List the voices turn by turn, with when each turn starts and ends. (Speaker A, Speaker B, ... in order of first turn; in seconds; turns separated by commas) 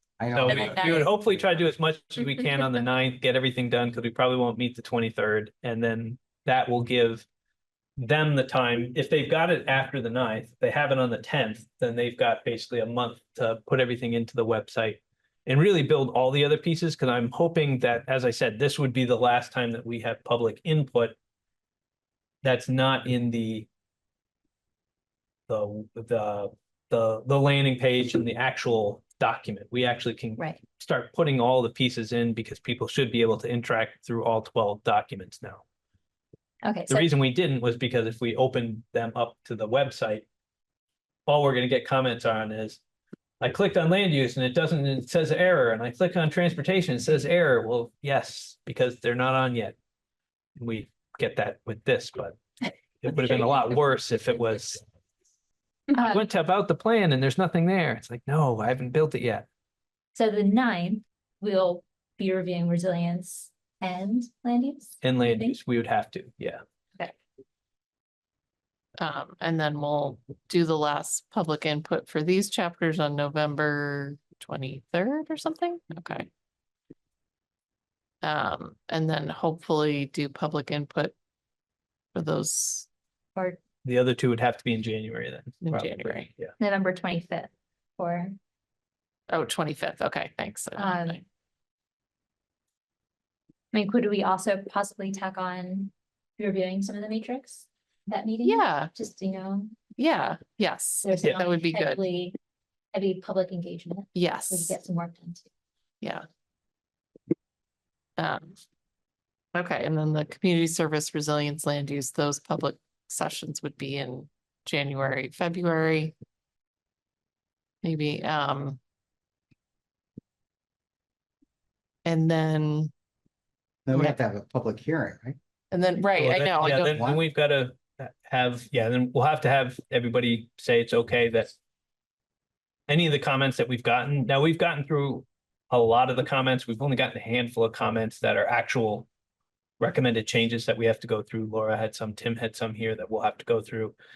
Speaker A: 0.2-1.3, Speaker B: 0.3-7.3, Speaker C: 0.5-1.1, Speaker B: 8.0-21.2, Speaker B: 22.4-23.7, Speaker B: 25.5-35.6, Speaker D: 36.6-37.1, Speaker B: 36.9-40.3, Speaker B: 41.3-42.8, Speaker B: 43.4-49.8, Speaker B: 50.6-52.4, Speaker B: 53.0-54.8, Speaker D: 55.9-56.2, Speaker B: 56.0-59.5, Speaker D: 60.1-65.6, Speaker B: 65.0-66.6, Speaker C: 69.0-76.3, Speaker C: 78.2-81.1, Speaker C: 82.1-82.9, Speaker D: 83.4-83.6, Speaker B: 83.8-86.5, Speaker C: 85.6-86.3, Speaker D: 86.6-88.4, Speaker C: 89.3-91.2, Speaker D: 90.8-91.2, Speaker D: 93.7-99.8, Speaker C: 98.4-98.9, Speaker C: 100.0-102.0, Speaker D: 101.0-102.4, Speaker D: 102.9-105.5, Speaker C: 104.1-104.8, Speaker C: 108.2-108.6, Speaker C: 109.5-116.2, Speaker C: 117.8-118.8, Speaker C: 122.0-122.9, Speaker A: 123.9-125.4, Speaker C: 125.7-127.0, Speaker B: 126.2-131.6, Speaker A: 126.6-127.2, Speaker B: 132.9-139.1, Speaker B: 139.8-143.9